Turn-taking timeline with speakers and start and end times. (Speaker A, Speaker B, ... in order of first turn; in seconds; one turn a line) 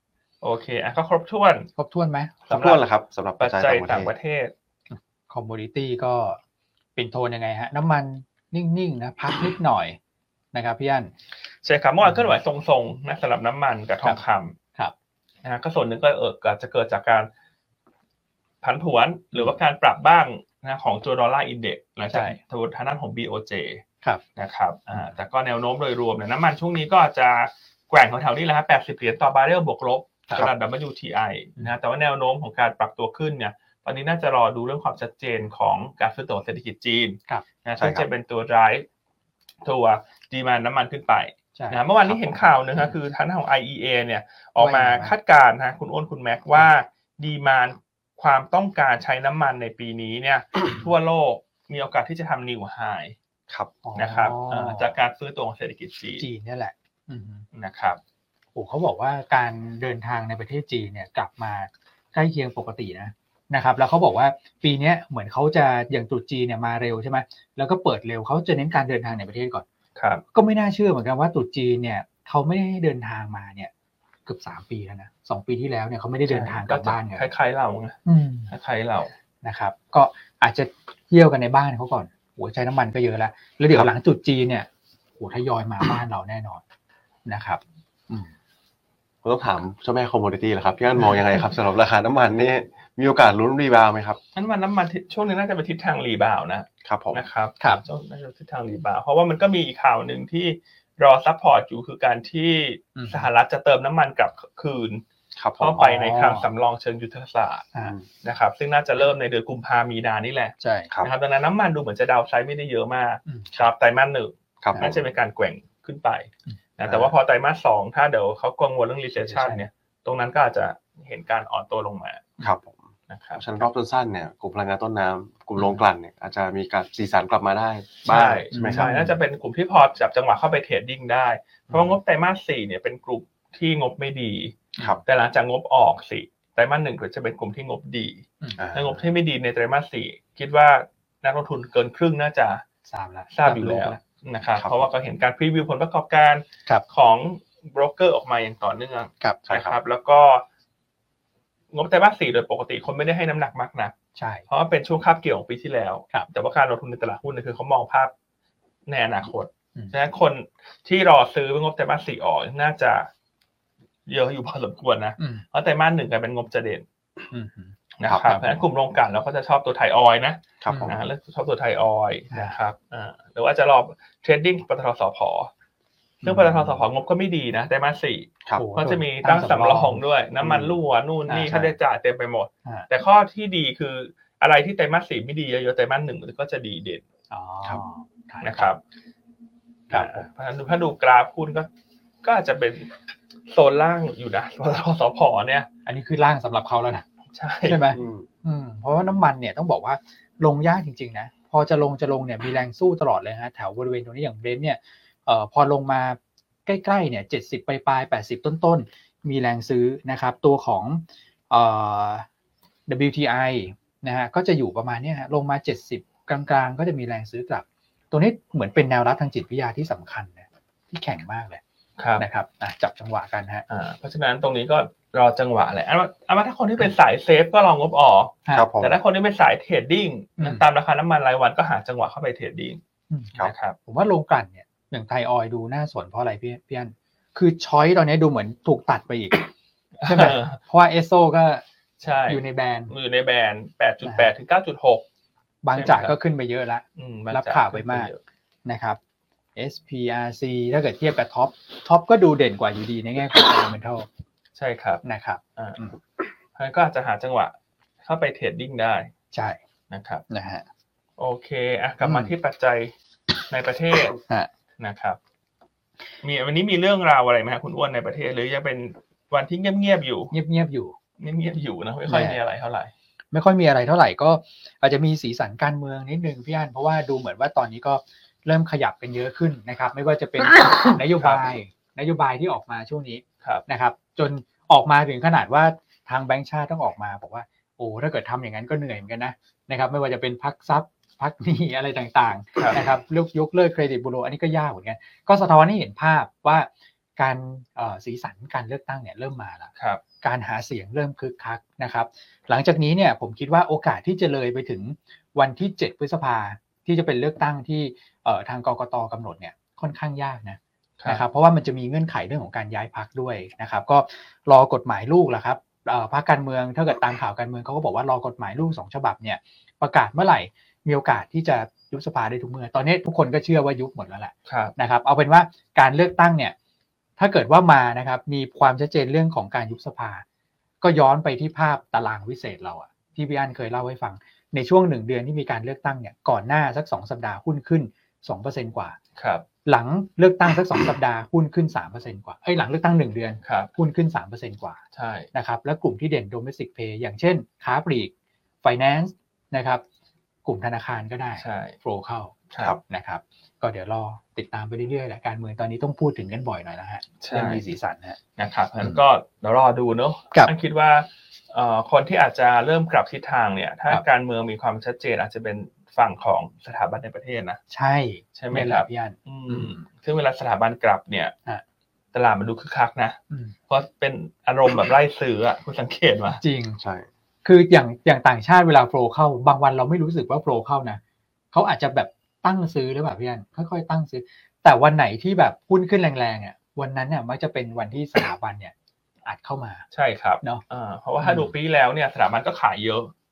Speaker A: 0.4-1.7
Speaker B: 1.8-2.4
Speaker A: 2.5-2.8
Speaker C: 2.5-4.1
Speaker A: 3.4-4.5
Speaker B: 4.9-6.4
Speaker B: 7.0-10.0
Speaker B: 10.5-11.1
Speaker A: 11.6-14.6
Speaker B: 12.0-12.3
Speaker A: 15.4-17.3
Speaker A: 18.6-23.8
Speaker B: 22.1-22.4
Speaker A: 24.4-38.9
Speaker C: 37.8-38.1
Speaker A: 39.6-53.2
Speaker B: 41.5-41.8
Speaker C: 42.1-42.4
Speaker B: 44.6-45.1
Speaker C: 53.5-53.7
Speaker B: 53.8-54.9
Speaker A: 54.0-56.2
Speaker B: 56.2-57.5
Speaker A: 57.5-58.0
Speaker B: 58.5-69.7
Speaker A: 70.0-70.2
Speaker B: 70.3-73.7
Speaker B: 74.3-77.3
Speaker A: 76.3-78.0
Speaker B: 78.0-78.5
Speaker A: 78.5-79.1
Speaker B: 79.4-86.6
Speaker B: 87.3-88.3
Speaker C: 89.2-94.2
Speaker A: 94.3-105.0
Speaker C: 96.8-97.2
Speaker B: 103.0-103.3
Speaker C: 105.3-105.8
Speaker A: 105.6-107.7
Speaker B: 105.8-106.5
Speaker A: 108.2-122.3
Speaker B: 110.6-110.9
Speaker B: 113.3-113.7
Speaker C: 114.6-115.0
Speaker C: 116.8-117.1
Speaker B: 119.2-119.7
Speaker C: 122.4-128.9
Speaker A: 123.1-123.4
Speaker A: 128.1-142.6
Speaker B: 128.5-129.2
Speaker B: 131.7-132.0
Speaker C: 138.6-139.0
Speaker B: 142.9-144.0
Speaker A: 143.3-150.4
Speaker C: 144.6-144.9
Speaker C: 149.5-149.8
Speaker A: 151.7-153.9
Speaker B: 154.2-154.4
Speaker A: 154.5-158.1
Speaker A: 158.9-163.1
Speaker A: 164.1-166.9
Speaker B: 165.2-165.4
Speaker B: 167.3-167.8
Speaker A: 168.0-175.5
Speaker C: 168.1-168.4
Speaker C: 170.6-171.0
Speaker B: 170.7-171.0
Speaker B: 172.3-172.6
Speaker B: 176.2-176.8
Speaker A: 176.2-187.0
Speaker B: 178.6-180.0
Speaker C: 180.4-180.8
Speaker B: 181.3-181.8
Speaker B: 187.3-188.7
Speaker A: 188.4-188.8
Speaker B: 189.9-190.3
Speaker A: 189.9-191.7
Speaker A: 192.2-192.9
Speaker A: 193.5-195.7
Speaker B: 195.9-197.1
Speaker A: 197.3-197.9
Speaker B: 197.7-212.3
Speaker C: 197.9-198.3
Speaker B: 212.9-221.6
Speaker A: 222.0-222.2
Speaker B: 222.2-223.7
Speaker A: 223.7-232.8
Speaker C: 228.5-229.0
Speaker B: 230.4-230.7
Speaker B: 233.1-233.3
Speaker A: 233.4-233.8
Speaker B: 233.9-239.5
Speaker A: 240.0-240.6
Speaker B: 240.1-241.6
Speaker A: 242.0-245.1
Speaker B: 242.3-242.9
Speaker B: 244.0-244.3
Speaker B: 245.6-248.1
Speaker A: 245.7-246.2
Speaker A: 247.0-248.2
Speaker B: 248.7-249.0
Speaker B: 249.6-254.1
Speaker A: 254.6-255.0
Speaker B: 255.0-255.9
Speaker A: 256.6-259.1
Speaker B: 259.3-259.6
Speaker A: 259.9-260.2
Speaker B: 260.3-260.6
Speaker A: 261.2-262.9
Speaker B: 262.0-262.3
Speaker A: 263.5-264.2
Speaker A: 264.8-265.2
Speaker A: 266.2-270.3
Speaker B: 270.3-270.9
Speaker A: 271.2-272.9
Speaker B: 272.1-272.4
Speaker B: 273.3-299.7
Speaker A: 281.2-281.4
Speaker A: 299.8-300.0
Speaker B: 300.2-326.6
Speaker A: 324.5-324.7
Speaker B: 327.2-330.2
Speaker B: 330.8-339.0
Speaker A: 339.2-339.4
Speaker B: 339.7-344.8
Speaker A: 343.4-343.7
Speaker A: 344.9-345.3
Speaker B: 345.3-348.1
Speaker B: 348.6-349.8
Speaker B: 350.4-358.2
Speaker A: 351.4-351.8
Speaker A: 352.5-352.8
Speaker A: 357.2-357.6
Speaker A: 358.4-367.6
Speaker B: 367.7-369.8
Speaker A: 368.4-371.3
Speaker A: 372.1-373.2
Speaker A: 373.7-376.4
Speaker B: 376.4-376.8
Speaker C: 376.8-377.1
Speaker B: 377.4-381.0
Speaker B: 381.5-388.7
Speaker B: 389.3-389.9
Speaker A: 389.9-393.1
Speaker B: 391.2-391.5